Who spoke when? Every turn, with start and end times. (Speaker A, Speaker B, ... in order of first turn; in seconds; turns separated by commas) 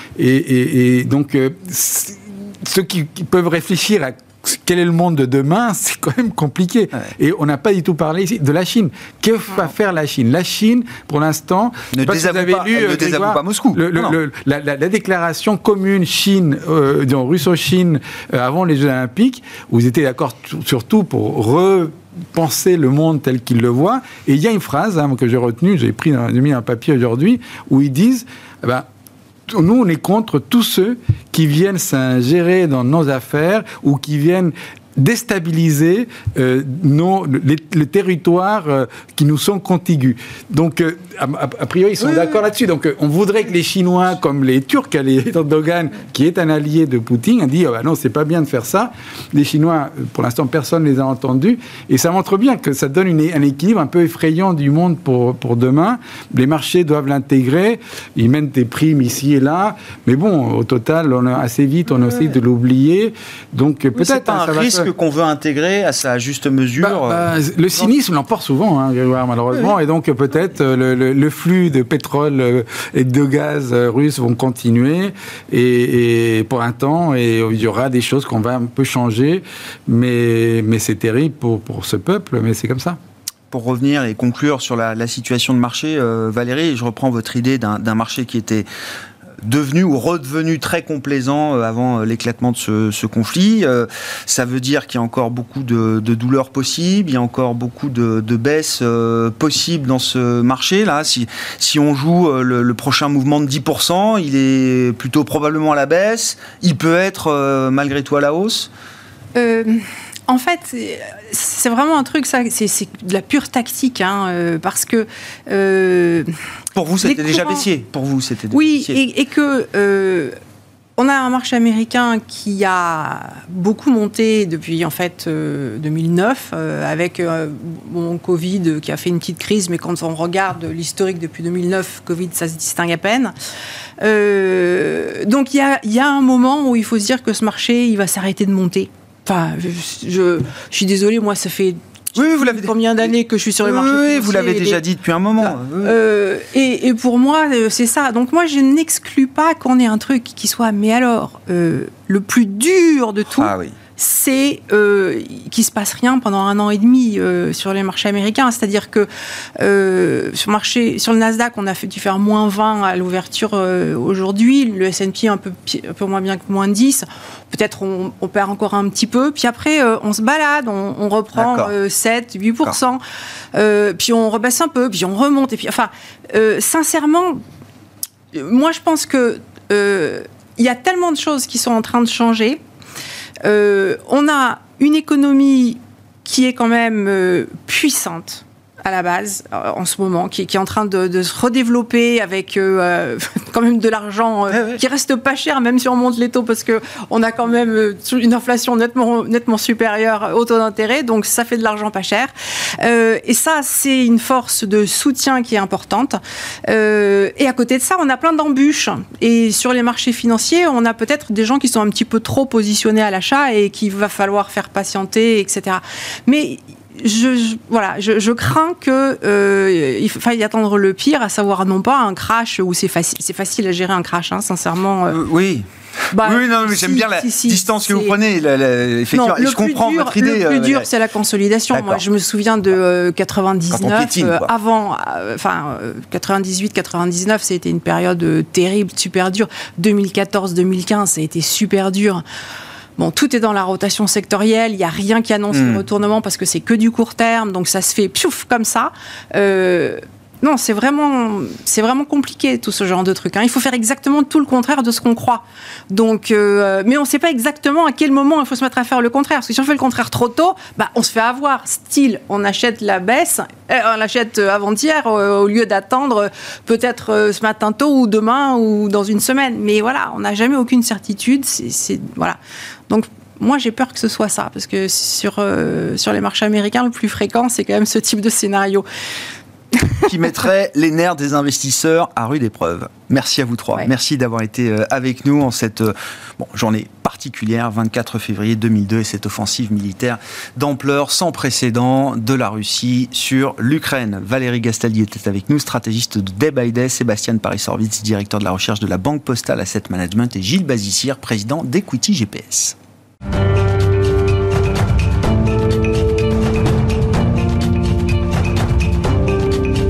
Speaker A: 0.2-28.9, Speaker B: 11.9-14.2, Speaker A: 29.5-64.9, Speaker B: 63.9-67.2, Speaker A: 66.8-83.0, Speaker B: 83.5-88.7, Speaker B: 89.4-108.7, Speaker C: 109.3-116.3, Speaker B: 116.7-119.0, Speaker C: 117.0-117.7, Speaker C: 118.5-120.3, Speaker C: 121.0-133.3, Speaker C: 134.0-144.8, Speaker B: 142.2-143.1, Speaker B: 143.6-145.9, Speaker C: 145.4-173.0, Speaker B: 153.4-153.8, Speaker B: 171.3-171.7, Speaker C: 173.5-177.4, Speaker C: 178.3-182.6, Speaker C: 183.4-225.2, Speaker B: 194.5-194.8, Speaker B: 225.1-230.9, Speaker C: 226.1-228.1, Speaker C: 229.1-242.2, Speaker B: 231.7-232.0, Speaker B: 233.7-234.5, Speaker C: 243.0-272.4, Speaker B: 245.5-245.8, Speaker C: 272.9-278.9, Speaker B: 280.0-302.8